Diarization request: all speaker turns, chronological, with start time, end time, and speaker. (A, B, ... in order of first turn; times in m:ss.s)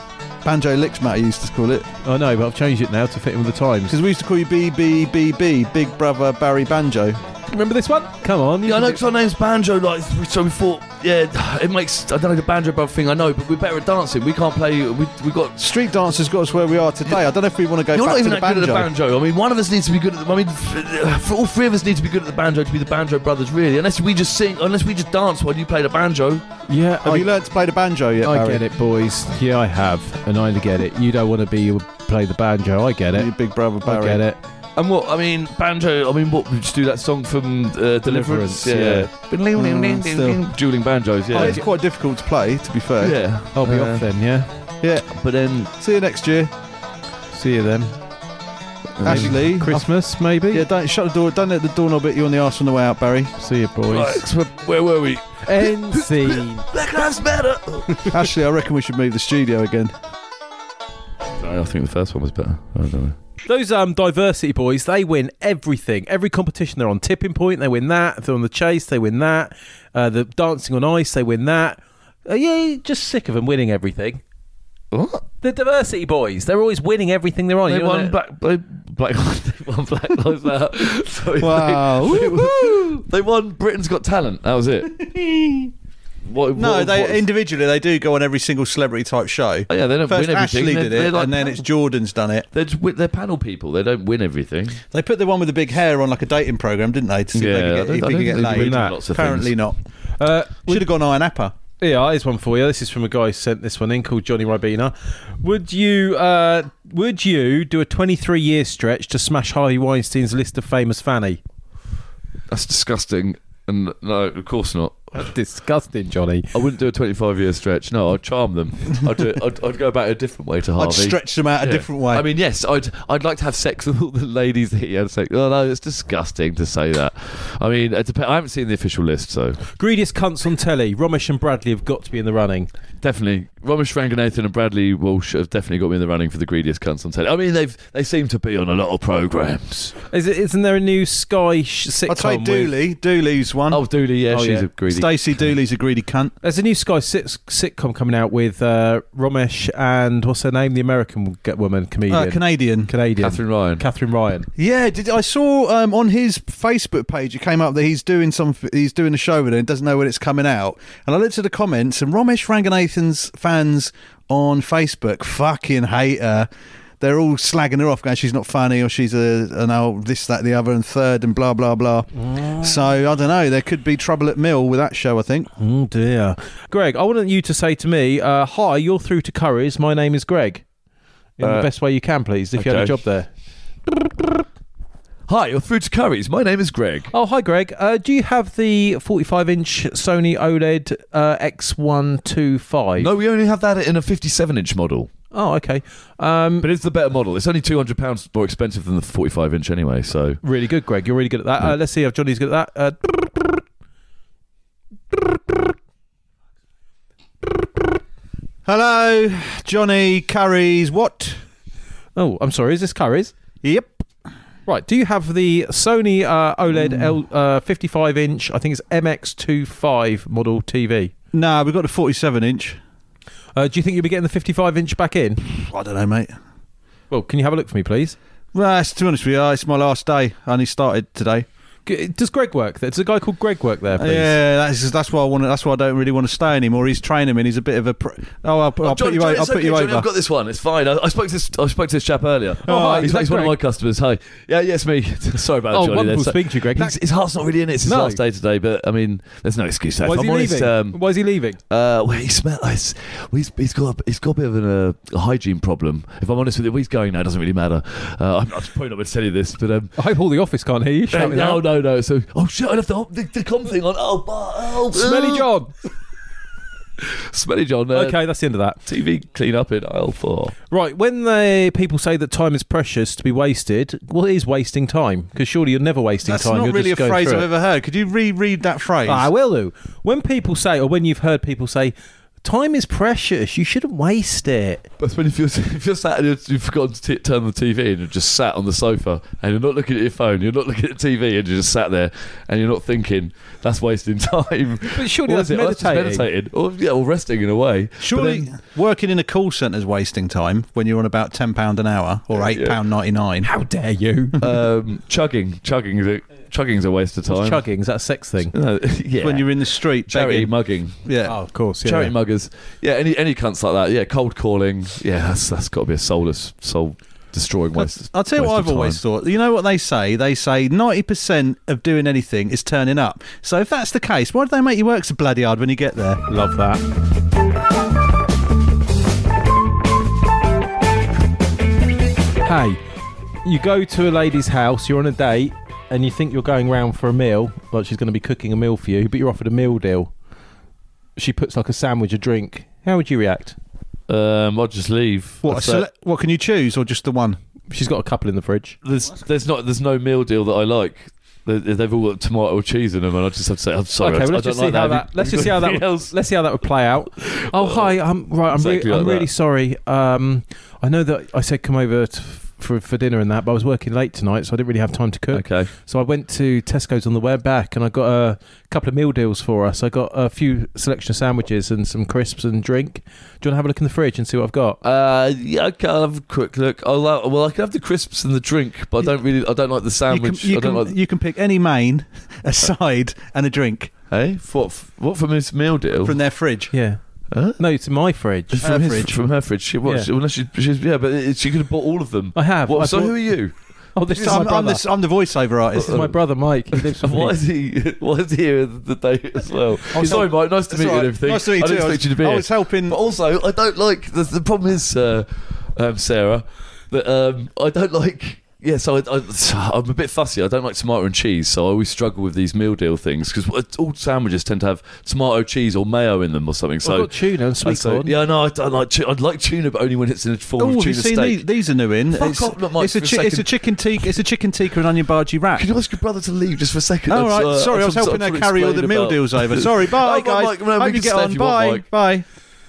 0:00.4-0:01.9 A
0:02.0-0:04.0 B
0:03.9-0:07.2 A
0:07.5-0:09.0 B
0:08.6-0:15.6 C
0:15.6-0:18.9 A
0:17.9-0:26.4 C
0:26.7-0:27.3 B
0:27.0-0:28.6 A
0:28.2-0:34.4 B
0:33.1-0:34.2 A
0:34.8-0:41.6 C
0:38.0-0:39.1 B
0:39.5-0:40.4 A
0:41.3-0:43.2 A
0:41.3-0:41.6 B
0:43.0-0:44.0 C
0:43.5-0:44.5 B
0:44.8-0:45.1 A
0:45.1-0:45.7 C
0:45.7-0:46.5 A
0:47.3-0:47.9 B
0:49.0-0:49.4 C
0:49.0-0:49.9 A
0:49.0-0:50.6 B
0:50.5-0:53.3 A
0:53.4-0:54.2 B
0:53.9-0:58.2 C
0:55.4-0:56.7 B
0:58.1-0:59.9 A
1:01.4-1:03.2 C
1:03.4-1:14.2 B
1:14.9-1:15.2 C
1:15.4-1:18.1 B
1:17.7-1:25.0 C
1:21.4-1:23.0 A
1:25.0-1:25.7 A
1:26.2-1:27.2 C
1:26.5-1:32.5 A
1:29.7-1:31.6 C
1:32.5-1:34.8 C
1:34.9-1:39.8 A
1:37.3-1:39.5 C
1:38.4-1:39.0 B
1:40.2-1:40.9 B
1:40.6-1:41.5 A
1:41.8-1:51.4 B
1:52.5-1:55.2 C
1:55.1-1:56.5 B
1:56.5-2:09.6 C
2:00.8-2:02.2 A
2:09.7-2:12.7 B
2:13.0-2:19.9 C
2:20.1-2:22.7 B
2:22.1-2:23.8 A
2:23.7-2:25.2 C
2:24.3-2:24.6 B
2:24.9-2:26.3 A
2:26.4-2:34.5 B
2:32.1-2:32.9 A
2:33.2-2:33.8 C
2:34.6-2:46.5 A
2:47.0-2:55.5 A
2:55.6-3:00.6 B
3:01.4-3:03.3 B
3:01.4-3:01.7 C
3:02.5-3:03.0 C
3:05.3-3:07.1 C
3:07.1-3:13.1 B
3:13.0-3:15.1 C
3:15.3-3:16.7 B
3:16.6-3:20.4 C
3:20.4-3:23.6 B
3:28.6-3:31.4 A
3:32.2-3:33.3 B
3:33.6-3:34.1 A
3:34.7-3:41.1 B
3:36.7-3:37.1 A
3:41.3-3:42.8 A
3:43.6-3:45.4 B
3:45.5-3:46.3 A
3:47.1-3:48.2 B
3:48.5-3:51.4 A
3:51.8-3:54.4 B
3:54.0-4:00.1 A
3:58.8-4:11.0 C
4:02.6-4:03.6 B
4:02.7-4:03.1 A
4:05.7-4:07.0 B
4:07.8-4:08.2 B
4:10.0-4:11.6 B
4:11.7-4:20.0 C
4:20.0-4:21.6 B
4:21.1-4:25.4 C
4:24.9-4:25.7 B
4:27.0-4:28.2 C
4:27.9-4:28.8 B
4:28.8-4:30.5 C
4:30.7-4:37.5 B
4:36.2-4:39.3 A
4:39.0-4:44.9 B
4:45.0-4:58.5 C
4:54.9-4:56.2 B
4:58.0-5:03.5 A
5:02.4-5:02.8 C
5:03.4-5:04.4 B
5:04.4-5:07.6 C
5:07.3-5:08.5 B
5:08.5-5:11.0 C
5:09.2-5:10.5 A
5:11.0-5:11.4 A
5:11.2-5:12.1 B
5:11.8-5:19.0 C
5:17.7-5:26.2 A
5:26.3-5:26.8 B
5:32.4-5:32.8 B
5:33.4-5:40.1 B
5:41.2-5:43.6 B
5:44.1-5:45.9 C
5:45.4-5:47.4 A
5:47.7-5:48.8 B
5:48.8-5:56.1 C
5:54.0-6:14.8 B
5:57.2-5:57.9 C
5:58.5-5:59.3 C
6:05.3-6:05.7 C
6:14.8-6:20.9 C
6:20.1-6:23.9 A
6:24.1-6:26.2 C
6:26.0-6:26.7 A
6:26.7-6:27.0 B
6:27.3-6:27.6 C
6:27.6-6:28.7 B
6:28.5-6:33.6 C
6:28.6-6:29.1 A
6:32.3-6:33.3 B
6:33.9-6:34.8 B
6:34.1-6:36.0 A
6:35.7-6:37.4 B
6:35.8-6:36.1 C
6:36.7-7:01.4 C
6:39.9-6:43.0 A
6:56.8-6:58.1 B
7:00.6-7:05.7 A
7:02.1-7:03.5 C
7:05.5-7:11.9 C
7:07.1-7:12.2 A